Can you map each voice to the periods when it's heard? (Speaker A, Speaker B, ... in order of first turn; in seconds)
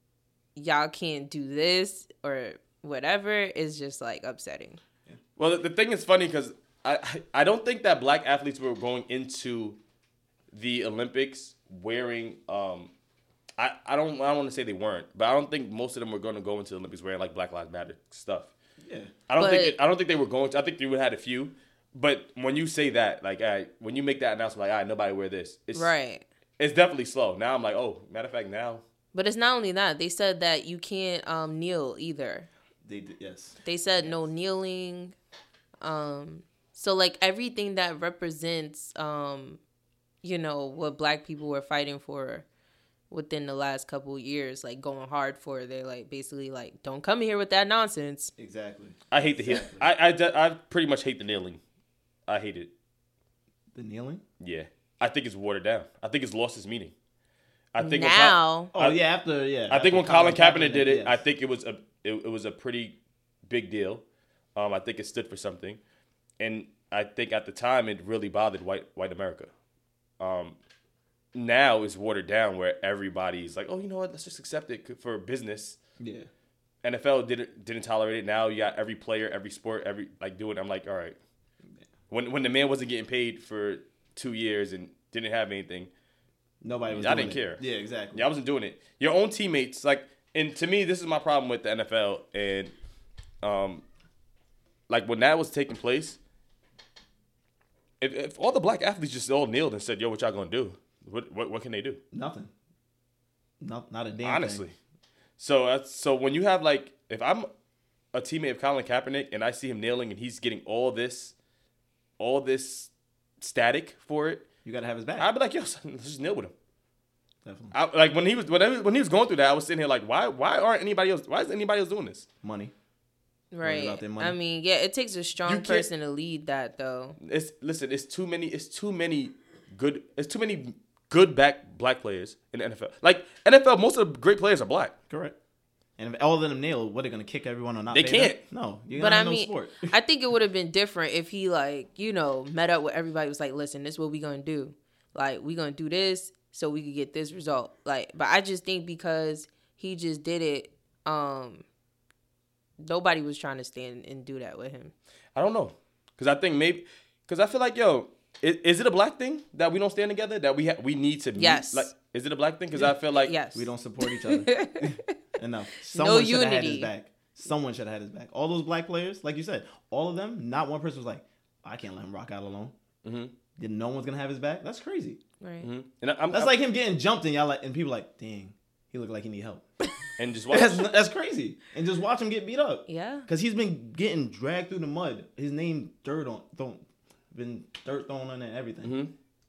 Speaker A: 0.6-4.8, 19.4-19.8, 25.8-26.2, 29.1-32.5, 33.6-35.1, 35.8-39.6, 40.2-42.5, 43.1-48.3, 57.8-58.7, 123.5-127.2, 139.0-151.7, 152.8-154.9, 161.4-161.9, 163.2-165.1, 165.8-166.9, 175.4-175.7, 182.9-183.3
Speaker B: 5.4-9.8, 10.5-12.9, 13.6-18.5, 19.3-25.9, 26.6-28.8, 49.1-51.6, 52.3-52.7, 54.4-56.9, 57.7-59.0, 59.7-63.0, 63.5-65.8, 66.4-69.5, 70.2-70.6, 71.3-75.8, 76.8-81.2, 82.1-85.9, 86.9-87.6, 88.1-92.7, 93.4-93.8, 94.9-96.2, 98.0-102.0, 104.2-104.8, 105.4-107.5, 108.1-111.3, 112.2-112.9, 113.4-114.5, 115.2-116.5, 117.7-122.3, 125.5-125.9, 127.2-134.9, 137.9-138.4, 155.3-163.3, 173.0-173.3, 175.6-176.5, 180.2-180.9, 188.8-189.1
Speaker C: 18.8-19.1, 32.9-34.1, 48.4-49.9, 53.7-54.2, 58.7-61.2, 76.0-76.3, 86.6-88.3, 102.1-102.5, 103.6-104.7, 114.7-115.3, 117.5-117.7, 122.4-122.7, 123.6-124.4, 135.1-135.3, 136.0-139.9, 163.5-172.7, 173.6-175.2, 176.3-179.7, 180.5-189.0